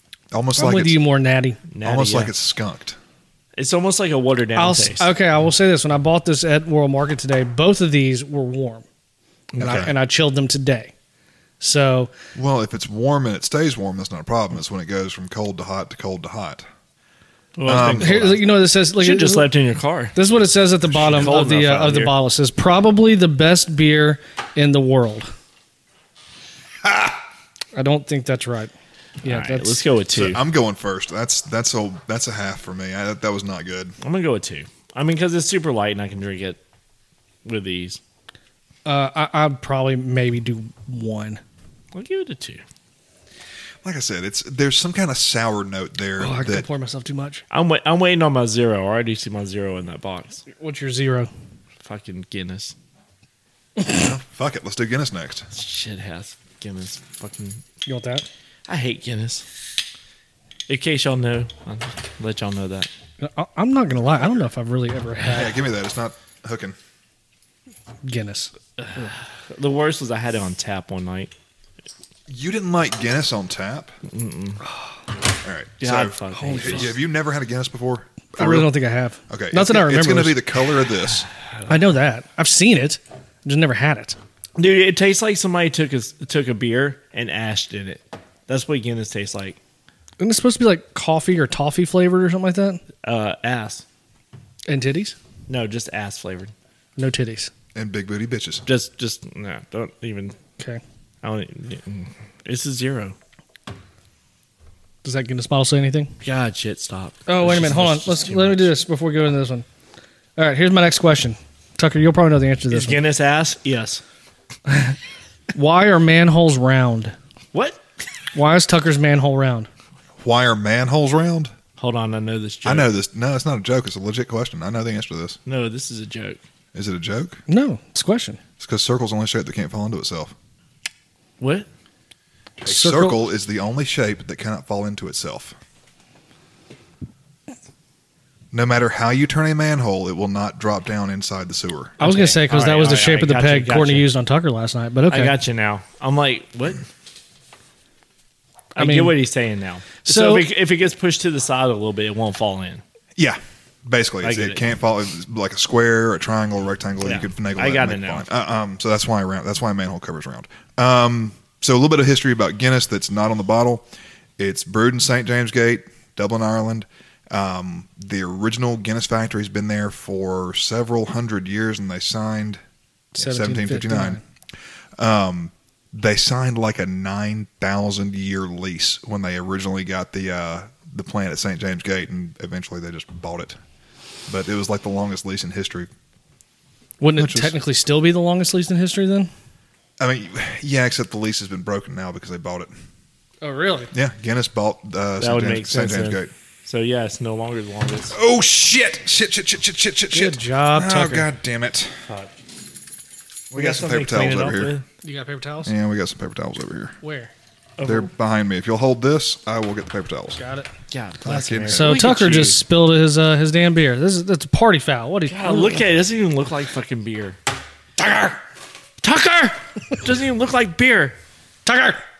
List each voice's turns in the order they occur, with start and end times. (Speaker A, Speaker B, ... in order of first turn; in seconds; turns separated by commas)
Speaker A: 0.3-1.0, Speaker B: 0.6-1.6, Speaker C: 1.7-2.3, Speaker A: 1.8-3.0, Speaker C: 3.6-5.1, Speaker B: 4.6-8.8, Speaker C: 9.5-9.9, Speaker B: 9.6-10.9, Speaker A: 9.6-9.9, Speaker B: 11.6-12.1, Speaker A: 12.3-16.6, Speaker C: 17.6-20.1, Speaker A: 17.7-18.4, Speaker B: 17.8-19.5, Speaker B: 20.1-25.3, Speaker C: 20.9-22.1, Speaker B: 27.8-28.7, Speaker B: 29.2-29.8, Speaker C: 29.2-30.4, Speaker A: 30.1-34.0, Speaker C: 34.0-36.6, Speaker C: 37.5-38.0, Speaker B: 38.9-41.4, Speaker C: 41.9-42.6, Speaker A: 43.8-46.7, Speaker B: 46.2-47.4, Speaker C: 47.5-50.5, Speaker B: 50.6-51.3, Speaker C: 51.8-52.8, Speaker A: 53.9-55.5, Speaker C: 55.5-57.6, Speaker B: 57.9-58.3, Speaker C: 58.7-59.5, Speaker C: 60.7-62.9, Speaker B: 63.2-65.6, Speaker A: 65.3-66.8, Speaker B: 68.0-69.1, Speaker C: 68.8-71.3, Speaker A: 72.3-73.9, Speaker C: 74.1-74.6, Speaker A: 75.4-78.7, Speaker C: 75.8-77.0, Speaker B: 76.3-76.9, Speaker B: 78.3-80.4, Speaker A: 79.3-81.3, Speaker B: 81.7-84.2, Speaker C: 84.6-89.6, Speaker B: 90.2-92.8, Speaker C: 93.0-93.8, Speaker B: 94.7-95.2, Speaker C: 95.5-96.5, Speaker B: 97.0-97.5, Speaker A: 97.8-98.7, Speaker C: 98.7-100.4, Speaker C: 101.2-103.2, Speaker B: 105.0-106.1, Speaker C: 106.2-108.7, Speaker B: 107.3-109.7, Speaker B: 110.4-113.0, Speaker C: 112.7-114.0, Speaker B: 114.7-115.0, Speaker B: 115.5-117.2, Speaker C: 117.5-117.8, Speaker B: 118.3-119.7, Speaker A: 120.2-121.5, Speaker C: 121.8-122.9, Speaker A: 122.7-125.4, Speaker C: 125.5-126.4, Speaker A: 126.7-127.4, Speaker B: 127.5-128.4, Speaker A: 128.6-130.3, Speaker C: 131.4-131.7, Speaker A: 132.6-135.6, Speaker B: 132.7-133.2, Speaker A: 138.5-142.0, Speaker C: 142.0-144.1, Speaker B: 142.0-145.3, Speaker C: 145.1-146.9, Speaker B: 148.8-149.2, Speaker C: 148.8-152.8, Speaker B: 150.1-150.5, Speaker A: 153.2-172.6, Speaker C: 154.2-154.6, Speaker C: 157.0-158.2, Speaker A: 173.2-174.2, Speaker B: 173.2-174.2, Speaker A: 175.0-183.6, Speaker A: 184.3-185.9, Speaker B: 187.0-189.3, Speaker A: 187.2-187.6, Speaker A: 190.0-192.7, Speaker B: 193.4-193.9, Speaker A: 193.9-196.3, Speaker C: 195.2-198.2, Speaker A: 198.1-202.1, Speaker B: 200.1-201.3, Speaker A: 203.5-204.7, Speaker C: 203.5-204.8, Speaker B: 205.0-205.7, Speaker A: 205.7-207.0, Speaker B: 207.0-207.3, Speaker C: 207.8-208.1, Speaker A: 207.8-210.4, Speaker B: 210.4-210.7, Speaker C: 210.9-212.6, Speaker A: 211.2-212.0, Speaker B: 211.7-215.8, Speaker C: 215.3-217.4, Speaker B: 218.0-218.4, Speaker C: 219.0-221.2, Speaker B: 221.7-222.0